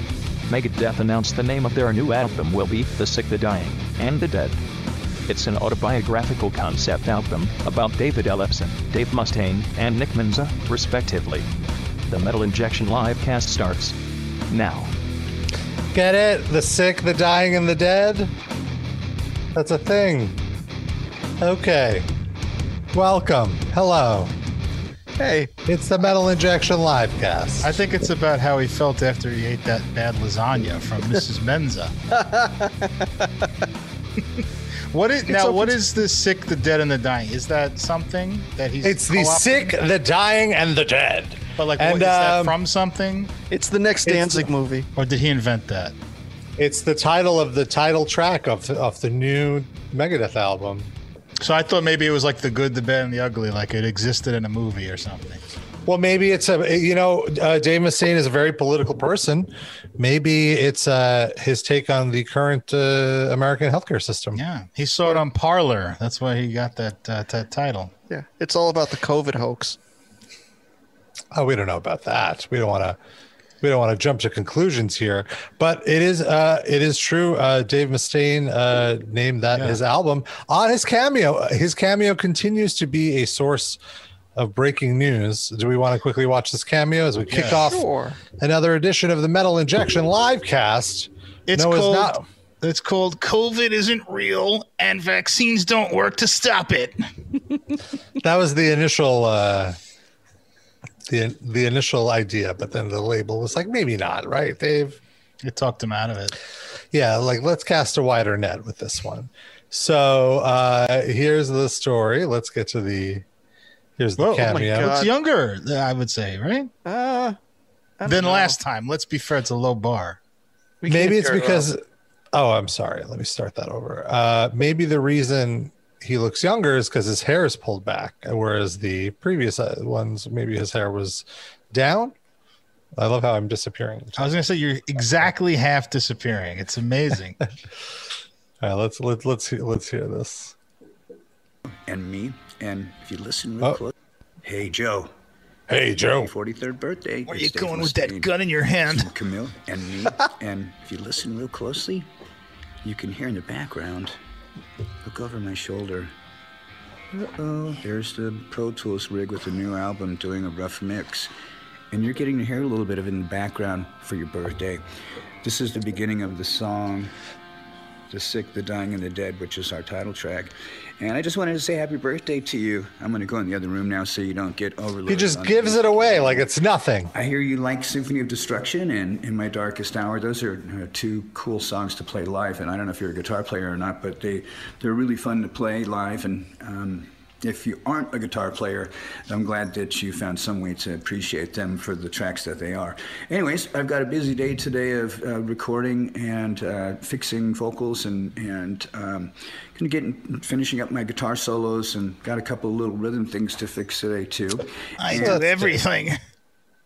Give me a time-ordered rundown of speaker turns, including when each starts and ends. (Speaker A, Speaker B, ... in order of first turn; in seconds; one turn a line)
Speaker A: 0.5-4.6
Speaker A: 5.3-11.4
Speaker A: 12.1-13.9
Speaker A: 14.5-14.9
Speaker B: 15.9-18.3
Speaker B: 19.5-20.4
Speaker B: 21.4-22.1
Speaker B: 22.9-24.3
Speaker C: 25.2-25.5
Speaker B: 25.6-27.7
Speaker D: 27.6-31.9
Speaker C: 32.1-33.5
Speaker D: 34.9-39.7
Speaker C: 35.3-35.8
Speaker B: 38.8-42.6
Speaker D: 41.5-43.3
Speaker C: 43.5-44.9
Speaker B: 44.0-44.5
Speaker D: 44.9-45.9
Speaker B: 46.6-50.9
Speaker D: 51.4-55.4
Speaker B: 55.9-64.4
Speaker D: 64.3-67.9
Speaker C: 68.1-69.8
Speaker B: 71.3-73.0
Speaker B: 73.6-83.8
Speaker D: 79.5-79.8
Speaker B: 84.3-87.8
Speaker D: 87.3-87.6
Speaker C: 87.5-88.2
Speaker B: 88.4-92.2
Speaker D: 91.5-97.0
Speaker B: 98.2-99.8
Speaker B: 101.1-105.0
Speaker D: 105.4-106.3
Speaker B: 106.9-113.2
Speaker B: 114.0-115.0
Speaker D: 114.2-116.7
Speaker C: 114.4-115.1
Speaker C: 116.8-117.3
Speaker C: 118.0-118.5
Speaker D: 118.0-120.2
Speaker C: 120.8-121.7
Speaker B: 120.9-121.8
Speaker B: 122.3-132.1
Speaker B: 132.9-134.4
Speaker D: 134.2-137.4
Speaker B: 134.9-135.3
Speaker B: 138.6-140.6
Speaker E: 141.8-143.9
Speaker E: 144.4-145.1
Speaker B: 145.7-146.3
Speaker E: 146.0-148.3
Speaker D: 147.3-149.1
Speaker E: 148.9-152.1
Speaker E: 152.8-154.2
Speaker E: 155.0-156.1
Speaker E: 157.1-161.3
Speaker E: 161.9-164.8
Speaker E: 165.4-167.1
Speaker E: 168.1-176.5
Speaker B: 175.1-177.1
Speaker E: 177.1-205.8
Speaker D: 205.0-206.2
Speaker B: 205.2-205.4